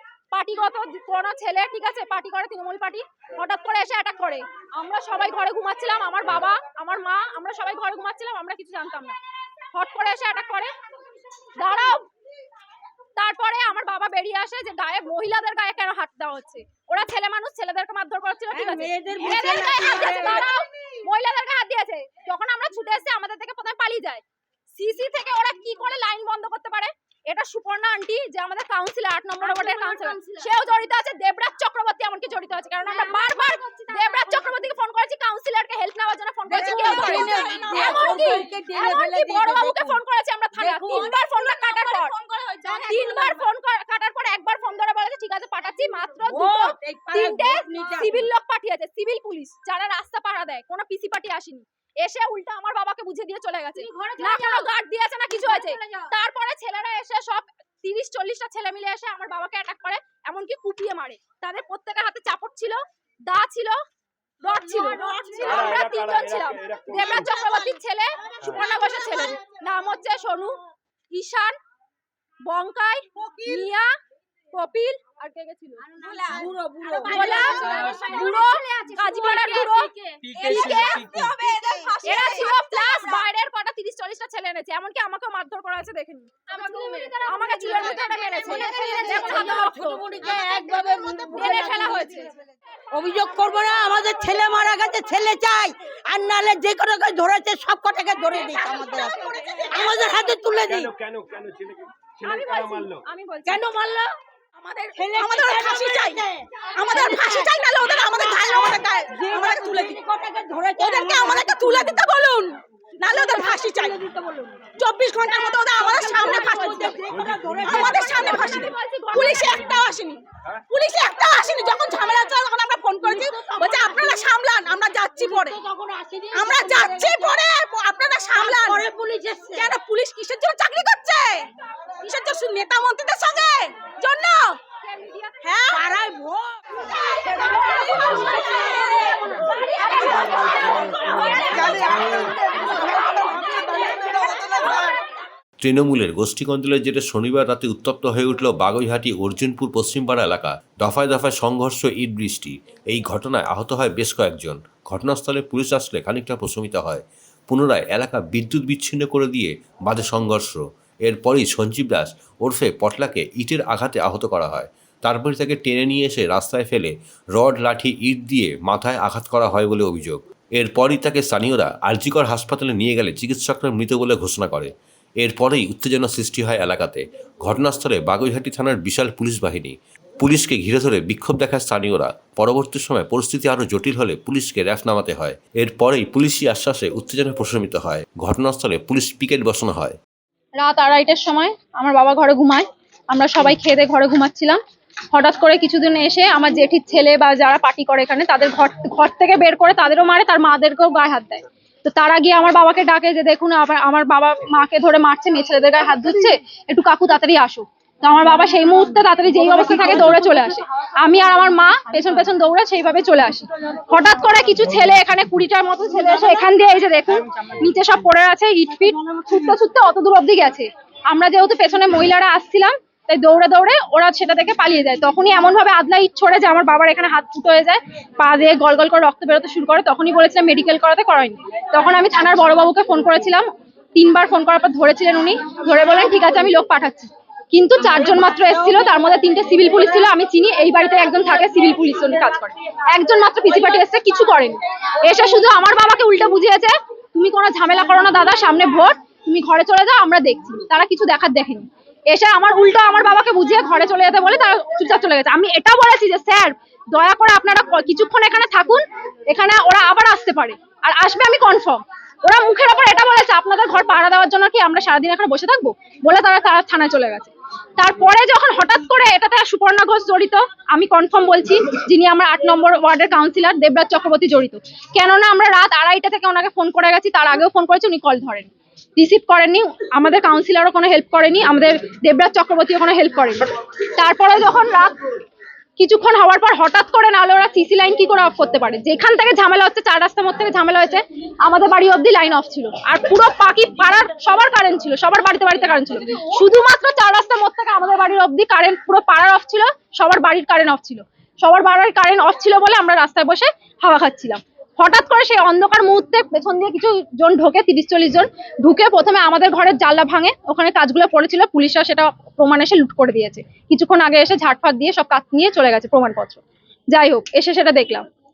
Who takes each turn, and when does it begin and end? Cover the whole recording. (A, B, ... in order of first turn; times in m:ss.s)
0:00.3-0:09.2 A
0:09.7-0:10.7 A
0:11.6-0:12.1 A
0:13.2-0:24.2 A
0:18.5-0:20.5 B
0:24.8-0:42.2 A
0:29.6-0:30.4 C
0:33.4-0:34.3 C
0:36.5-0:40.0 B
0:36.6-0:38.4 C
0:40.6-0:41.1 B
0:40.7-0:43.4 C
0:42.9-1:03.8 A
0:46.3-0:48.2 B
0:53.9-0:54.2 B
0:53.9-0:54.4 C
1:04.4-1:10.6 A
1:04.9-1:05.7 B
1:05.4-1:07.3 D
1:11.1-1:11.6 A
1:12.5-1:13.9 A
1:14.5-1:15.9 A
1:16.0-1:23.1 B
1:16.0-1:19.7 C
1:17.0-1:19.9 A
1:20.3-1:22.4 C
1:20.4-1:21.3 A
1:22.0-1:30.1 A
1:26.5-1:32.2 B
1:27.7-1:29.2 C
1:30.2-1:31.2 C
1:31.3-1:32.3 A
1:32.9-1:40.9 B
1:38.5-1:40.3 C
1:40.6-1:43.0 D
1:42.2-1:43.6 A
1:43.5-1:44.1 B
1:44.6-1:46.2 C
1:45.0-1:52.0 B
1:46.7-1:50.0 C
1:50.8-1:54.0 C
1:53.0-1:54.7 B
1:54.8-1:57.0 C
1:55.6-1:58.5 B
1:55.8-1:59.9 A
1:57.1-1:57.5 D
1:57.7-2:05.6 C
2:03.0-2:04.4 B
2:05.1-2:07.5 B
2:06.3-2:08.8 C
2:08.2-2:09.8 B
2:09.6-2:11.5 C
2:12.0-2:14.6 C
2:14.8-2:15.6 A
2:15.4-2:15.8 C
2:15.7-2:19.2 B
2:17.3-2:22.1 A
2:20.1-2:24.9 B
2:25.6-3:10.0 E
3:10.6-3:14.6 A
3:15.1-4:45.0 A
4:45.8-5:16.4 A
5:16.9-5:18.1 A